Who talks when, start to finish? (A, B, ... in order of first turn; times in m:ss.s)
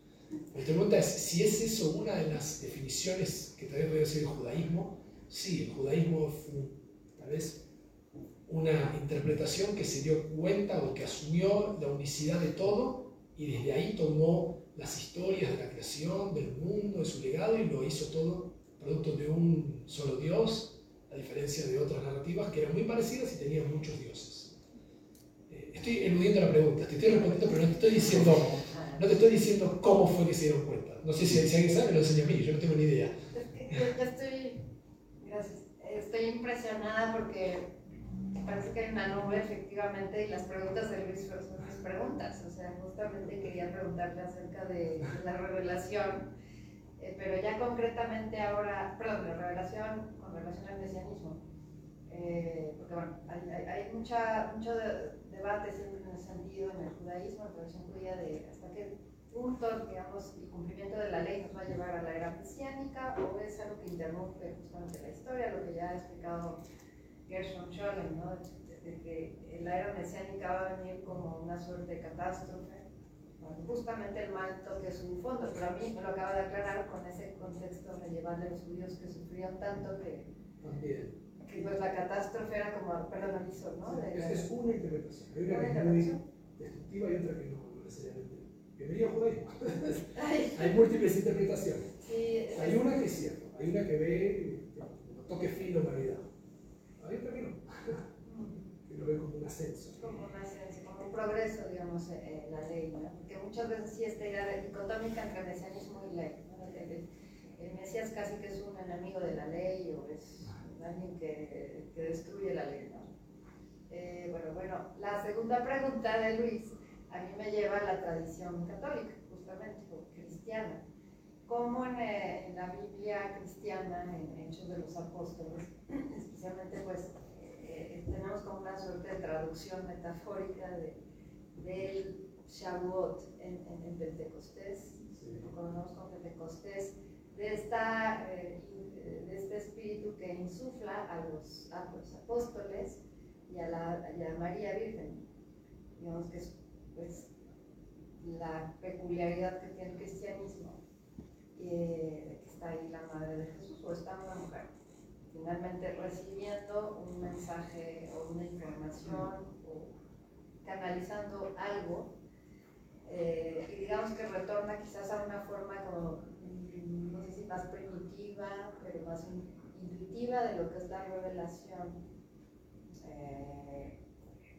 0:00.5-0:07.6 A
0:08.5-0:24.6 A
0:25.5-0:33.1 A
0:28.6-0:29.0 B
0:33.4-0:34.6 B
0:35.2-0:37.7 B
0:38.4-0:46.3 B
0:47.0-0:51.4 B
0:52.1-1:06.6 B
1:07.3-1:12.8 B
1:13.4-1:20.3 B
1:20.6-1:21.2 A
1:21.4-1:24.4 B
1:23.8-1:31.9 A
1:25.4-1:26.2 B
1:30.2-1:30.8 B
1:32.0-1:33.0 B
1:32.5-1:36.3 A
1:37.0-1:37.9 A
1:38.2-1:38.7 B
1:38.8-1:40.2 A
1:40.0-1:53.0 B
1:53.9-2:00.8 B
2:01.4-2:11.0 B
2:11.5-2:25.2 B
2:15.1-2:15.5 A
2:26.0-2:27.3 B
2:28.2-2:30.8 B
2:31.5-2:34.7 B
2:35.3-2:39.9 B
2:40.6-2:42.1 B
2:43.0-2:52.0 B
2:53.0-2:53.9 B